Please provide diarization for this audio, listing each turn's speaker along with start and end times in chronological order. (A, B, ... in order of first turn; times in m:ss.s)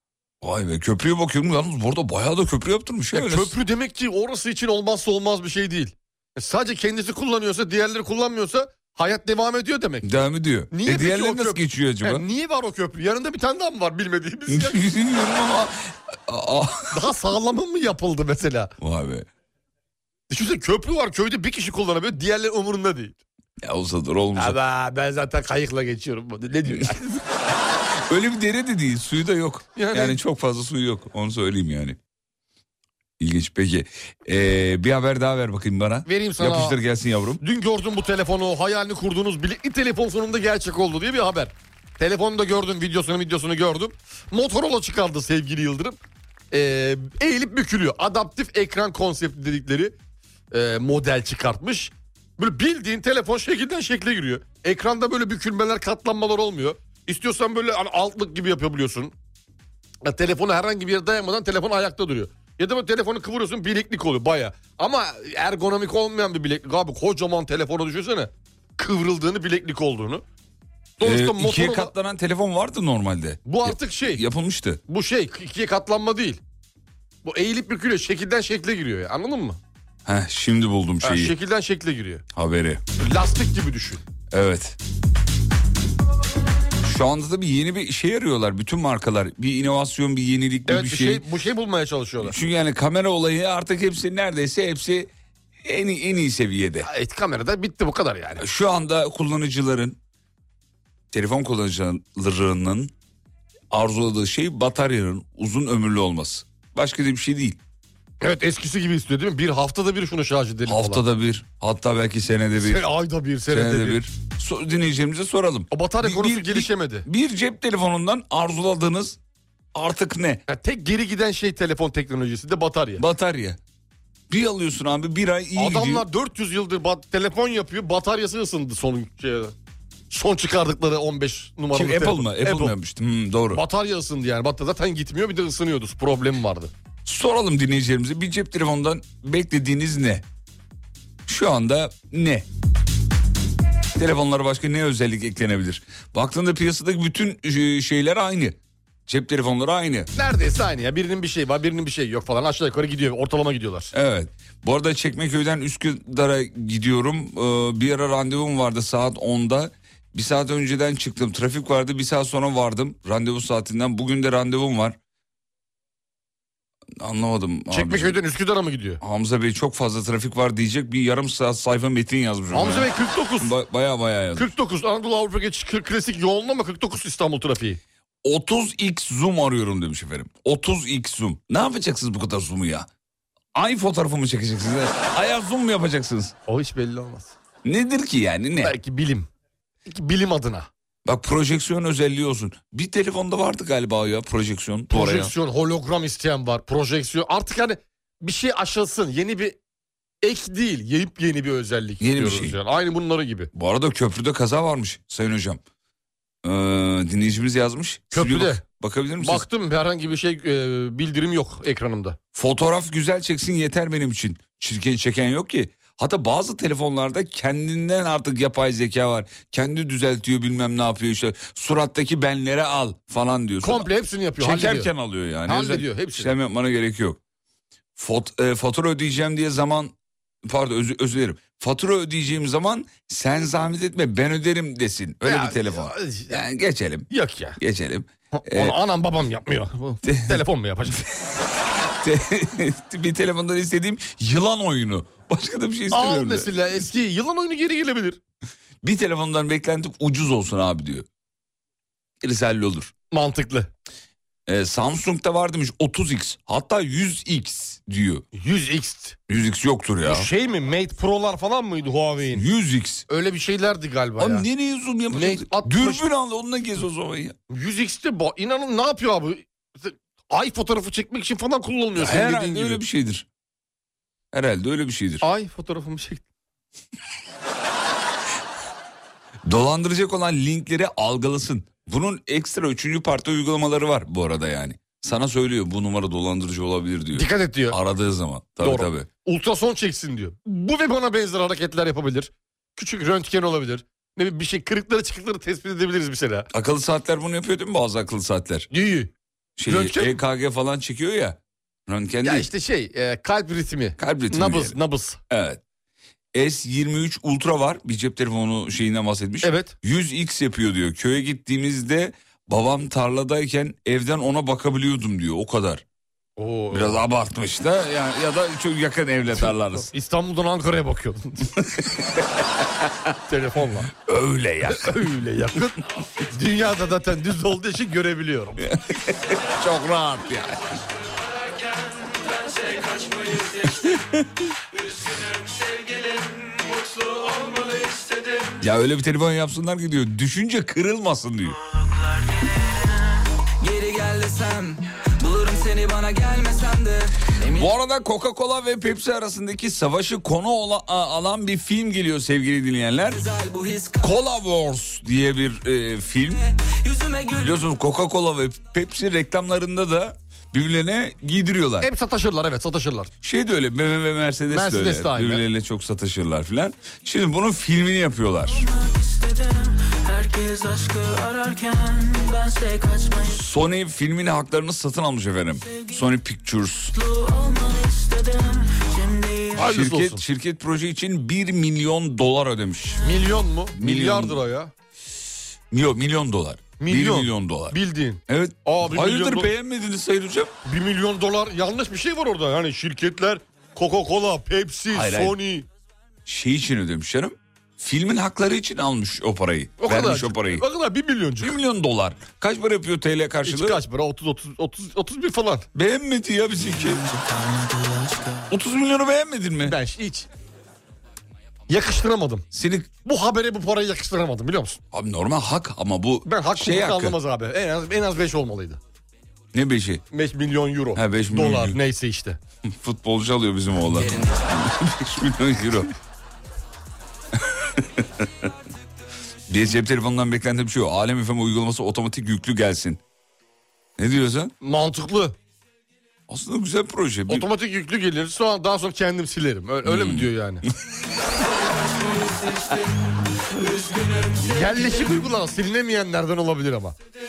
0:00.4-0:03.5 A
0:03.1-0:10.1 B
0:10.0-0:12.2 A
0:10.7-0:14.8 B
0:14.5-0:17.0 A
0:16.9-0:18.7 B
0:18.8-0:19.3 A
0:20.3-0:23.2 B
0:23.6-0:24.6 A
0:24.3-0:27.2 B
0:28.1-0:32.0 A
0:29.8-0:30.2 B
0:33.2-0:37.4 A
0:36.0-0:36.8 B
0:37.4-0:46.0 B
0:46.5-0:49.9 B
0:50.5-0:59.1 B
1:00.0-1:10.2 B
1:11.0-1:11.9 B
1:11.0-1:14.8 A
1:13.4-1:14.2 B
1:14.9-1:16.4 B
1:17.2-1:19.6 B
1:20.0-1:21.3 A
1:21.0-1:22.2 B
1:22.3-1:22.8 A
1:23.0-1:24.0 B
1:24.3-1:24.8 A
1:26.8-1:31.2 A
1:30.7-1:32.4 B
1:32.2-1:35.1 A
1:35.6-1:36.9 A
1:36.8-1:38.4 B
1:38.4-1:40.0 A
1:41.1-1:42.9 A
1:43.7-1:47.6 A
1:48.2-1:51.0 B
1:50.6-1:52.8 A
1:52.6-1:54.0 B
1:53.5-1:59.2 A
1:55.7-1:57.1 B
1:59.7-2:00.4 A
2:00.5-2:03.0 B
2:03.0-2:03.6 A
2:04.3-2:06.0 A
2:05.6-2:09.5 B
2:10.1-2:12.8 B
2:11.7-2:13.6 A
2:13.5-2:16.7 B
2:17.0-2:20.2 A
2:21.2-2:22.4 A
2:24.0-2:30.1 A
2:30.1-2:33.9 B
2:33.9-2:45.0 A
2:47.0-2:48.2 A
2:47.7-2:49.0 B
2:49.0-2:54.5 A
2:52.5-2:53.5 B
2:54.4-2:57.8 B
2:58.2-3:02.9 A
3:03.5-3:06.3 A
3:06.5-3:07.3 B
3:07.6-3:08.7 A
3:08.6-3:09.3 B
3:09.8-3:10.7 B
3:11.0-3:15.3 A
3:14.9-3:19.6 B
3:20.2-3:23.5 B
3:22.0-3:22.6 A
3:23.5-3:25.6 A
3:26.4-3:29.4 A
3:28.1-3:28.6 B
3:29.2-3:32.2 B
3:32.3-3:47.2 A
3:43.6-3:44.9 B
3:45.4-3:46.3 B
3:47.9-3:49.9 A
3:50.4-3:58.8 A
3:55.2-3:56.4 B
3:57.1-3:57.6 B
3:58.3-4:01.0 B
4:00.0-4:00.4 A
4:02.0-4:06.6 A
4:05.9-4:08.2 B
4:08.8-4:11.0 A
4:12.2-4:12.9 A
4:13.1-4:13.7 B
4:14.5-4:18.2 A
4:18.3-4:19.2 B
4:19.3-4:20.3 A
4:20.0-4:22.4 B
4:22.3-4:23.0 A
4:23.1-4:24.4 B
4:24.2-4:27.4 A
4:25.1-4:26.0 B
4:27.5-4:32.8 B
4:31.9-4:33.2 A
4:34.3-4:35.2 A
4:35.2-4:36.2 B
4:39.4-4:49.1 A
4:47.1-4:47.8 B
4:48.6-4:56.5 B
4:56.5-4:58.7 A
4:58.7-4:59.1 B
4:59.6-5:02.5 A
4:59.7-5:00.2 B
5:02.2-5:05.2 B
5:04.0-5:04.8 A
5:05.3-5:05.6 A
5:06.3-5:15.8 A
5:09.4-5:09.7 B
5:16.4-5:17.0 B
5:16.7-5:19.9 A
5:19.3-5:21.5 B
5:21.8-5:22.2 A
5:23.3-5:23.9 B
5:24.0-5:25.0 A
5:24.7-5:28.6 B
5:28.6-5:30.6 A
5:33.8-5:34.2 A
5:38.6-5:41.6 A
5:41.7-5:42.9 C
5:43.6-5:47.7 C
5:47.5-5:53.2 A
5:53.1-5:54.2 C
5:54.0-5:56.4 A
5:56.8-5:57.6 C
5:57.3-6:01.9 A
6:01.8-6:03.1 B
6:03.2-6:08.7 A
6:04.5-6:05.4 B
6:08.6-6:13.4 C
6:13.2-6:16.9 A
6:16.9-6:19.7 C
6:19.6-6:20.2 B
6:19.6-6:23.0 A
6:23.0-6:24.7 B
6:23.7-6:24.4 A
6:25.7-6:30.5 A
6:26.8-6:29.5 B
6:30.6-6:35.7 B
6:34.9-6:35.4 A
6:36.2-6:40.6 A
6:39.8-6:41.6 B
6:41.4-6:43.8 A
6:43.4-6:45.7 B
6:45.7-6:47.1 A
6:46.7-6:48.4 C
6:48.5-6:49.8 A
6:49.6-6:50.3 B
6:51.7-6:52.5 B
6:52.5-6:52.9 A
6:53.0-6:54.8 B
6:54.9-6:57.2 A
6:56.2-6:58.8 B
6:59.5-7:00.0 A
7:00.1-7:02.4 B
7:00.9-7:01.8 A
7:02.7-7:05.9 A
7:07.8-7:08.2 A
7:09.5-7:13.0 A
7:14.0-7:14.5 A
7:14.6-7:15.4 B
7:16.3-7:17.5 A
7:17.3-7:20.6 B
7:19.8-7:20.3 A
7:24.4-7:27.0 B